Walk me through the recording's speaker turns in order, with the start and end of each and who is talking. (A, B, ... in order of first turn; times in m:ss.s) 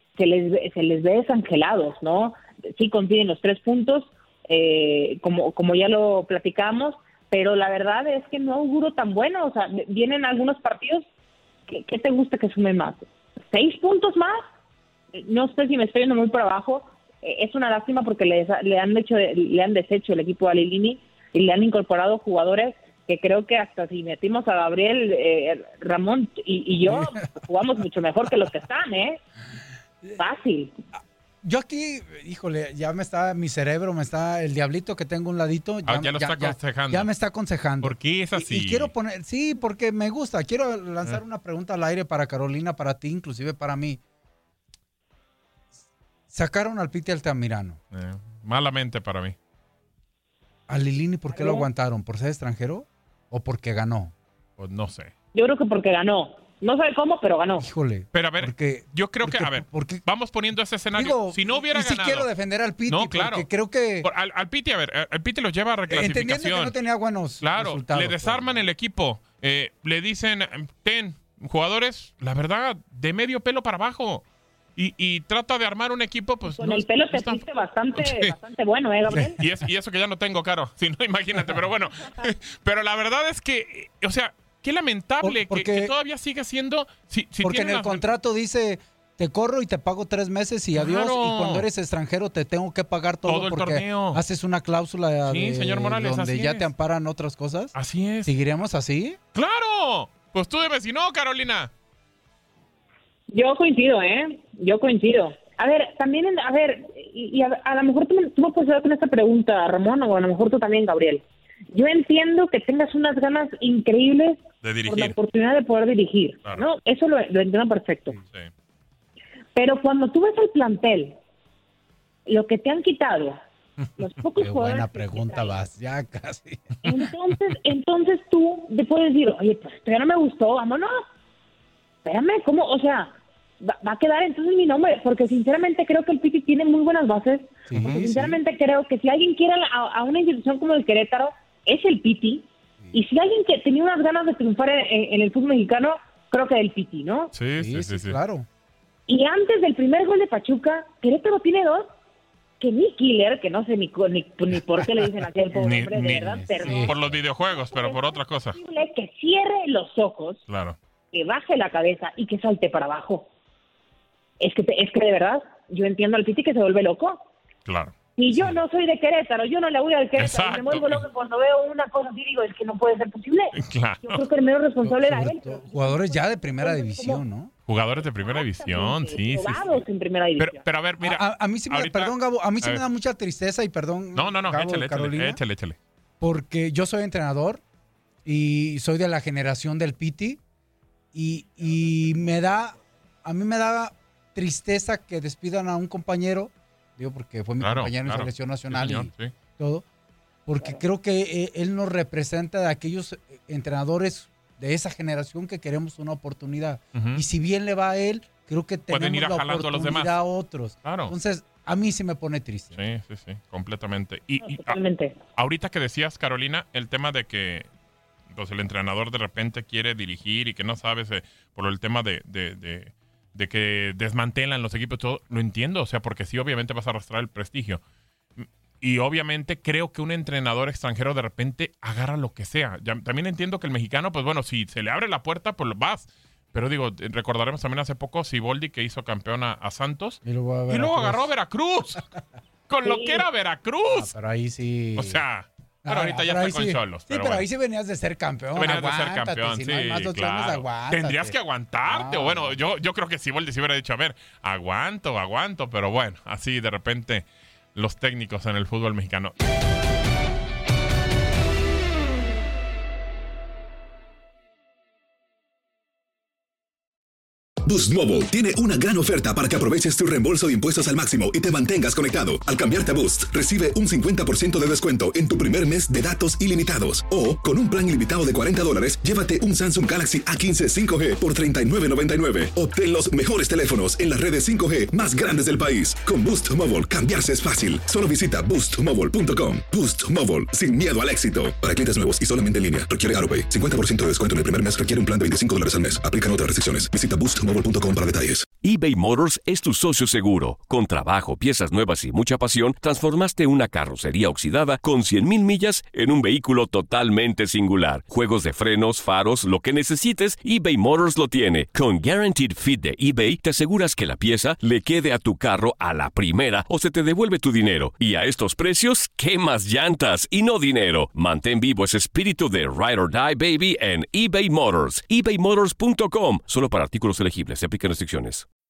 0:00.2-0:11.0 A
0:11.7-0:14.4 A
0:15.1-0:29.2 A
0:26.9-0:27.1 B
0:30.2-0:30.7 A
0:31.4-0:44.0 B
0:35.8-0:37.1 C
0:37.8-0:38.9 C
0:46.3-0:47.8 B
0:47.9-0:49.3 C
0:50.7-0:54.1 B
0:51.3-0:51.7 A
0:54.6-0:55.1 C
0:55.3-0:57.6 A
0:57.6-1:00.0 B
0:58.1-1:02.3 C
1:00.9-1:04.1 B
1:02.9-1:03.5 C
1:04.0-1:06.8 C
1:05.9-1:08.6 B
1:07.4-1:18.3 C
1:16.5-1:19.4 A
1:19.1-1:28.0 C
1:25.2-1:25.9 B
1:27.4-1:37.7 B
1:30.7-1:31.6 C
1:33.2-1:34.2 C
1:35.2-1:36.7 C
1:37.7-1:38.3 C
1:38.2-1:39.2 B
1:39.3-1:41.7 C
1:43.3-1:58.2 A
1:54.6-1:55.1 C
1:59.5-2:01.2 A
2:02.3-2:03.4 A
2:04.0-2:05.6 A
2:04.4-2:06.8 B
2:06.8-2:11.0 A
2:12.0-2:27.3 A
2:17.7-2:18.4 B
2:27.3-2:28.2 C
2:27.6-2:28.5 B
2:29.1-2:31.9 A
2:32.6-2:37.0 A
2:35.6-2:38.6 C
2:36.0-2:37.2 B
2:37.5-2:40.4 A
2:40.5-2:40.8 C
2:41.1-2:43.3 A
2:44.4-2:47.2 A
2:47.7-2:48.5 C
2:48.2-2:57.2 A
2:50.2-2:51.0 C
2:53.6-2:54.2 C
2:54.8-2:57.5 B
2:57.7-2:59.8 C
2:58.2-3:00.6 A
3:00.4-3:02.8 C
3:01.0-3:05.4 B
3:04.1-3:05.8 C
3:06.2-3:07.6 B
3:08.2-3:10.4 B
3:11.1-3:19.8 B
3:17.6-3:19.3 C
3:20.4-3:32.8 B
3:26.9-3:27.2 C
3:28.9-3:30.2 C
3:30.8-3:31.1 C
3:32.7-3:34.8 C
3:34.4-3:35.2 A
3:35.4-3:37.7 C
3:38.3-3:47.8 C
3:48.4-4:02.1 C
4:00.2-4:01.3 B
4:02.7-4:04.1 C
4:02.8-4:03.2 A
4:03.9-4:05.2 B
4:05.0-4:07.4 C
4:05.8-4:12.6 B
4:08.5-4:19.3 C
4:27.6-4:58.5 D
4:58.6-5:28.4 E